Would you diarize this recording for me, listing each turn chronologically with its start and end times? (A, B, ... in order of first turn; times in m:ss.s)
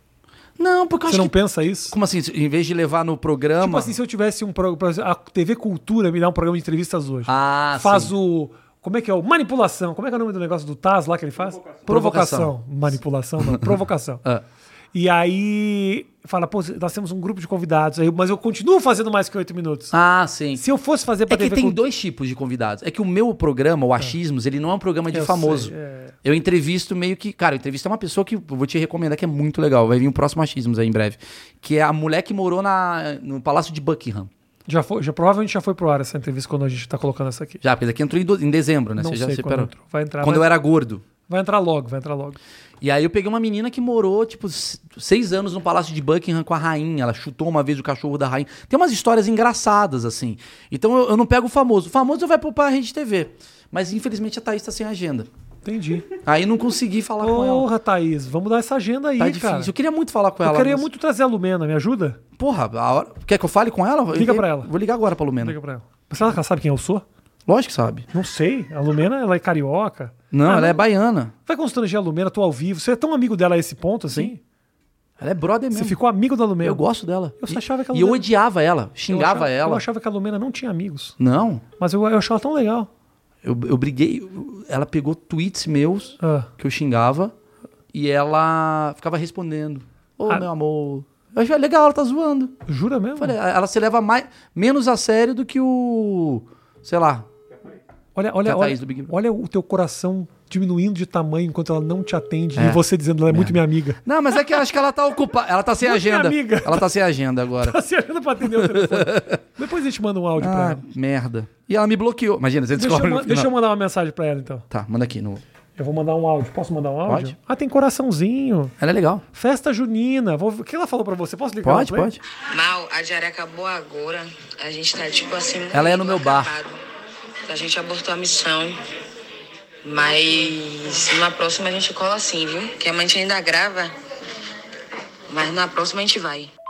0:00.6-0:01.4 A
0:01.1-0:02.0 B
0:01.9-0:03.9 A
0:03.6-0:14.2 B
0:07.3-0:08.1 A
0:11.9-0:12.6 A
0:13.4-0:14.4 A
0:14.9-0:19.9 B
0:19.9-0:20.6 A
0:20.6-0:21.8 B
0:21.3-0:25.7 A
0:25.1-0:26.1 B
0:26.2-0:34.3 A
0:34.7-0:37.6 B
0:37.6-0:41.0 A
0:39.0-0:40.5 B
0:41.3-0:42.4 B
0:42.8-0:55.3 A
0:55.6-0:56.1 B
0:56.2-0:57.7 A
0:57.2-0:59.7 B
0:59.2-1:00.9 A
1:00.4-1:02.2 B
1:02.4-1:05.6 A
1:04.1-1:04.7 B
1:05.4-1:07.0 B
1:07.5-1:08.1 A
1:08.1-1:10.8 B
1:10.3-1:11.3 A
1:11.5-1:14.4 B
1:15.2-1:16.0 A
1:15.7-1:16.8 B
1:16.6-1:19.8 A
1:17.4-1:18.2 B
1:19.1-1:21.2 B
1:21.2-1:21.6 A
1:21.8-1:22.9 B
1:23.4-1:27.3 A
1:26.2-1:26.5 B
1:27.9-1:32.6 A
1:32.7-1:33.4 B
1:33.2-1:37.3 A
1:38.2-1:44.0 B
1:38.4-1:39.1 A
1:42.6-1:47.8 A
1:45.8-1:46.9 B
1:47.6-1:50.8 B
1:48.4-1:49.4 A
1:50.4-1:53.5 A
1:52.8-1:54.6 B
1:54.7-1:55.4 A
1:55.8-1:58.7 B
1:57.1-1:57.4 A
1:58.8-1:59.2 A
1:59.3-2:02.1 B
2:01.6-2:02.2 A
2:02.5-2:06.8 C
2:05.7-2:06.6 A
2:07.5-2:08.8 C
2:09.8-2:13.9 C
2:15.3-2:16.5 C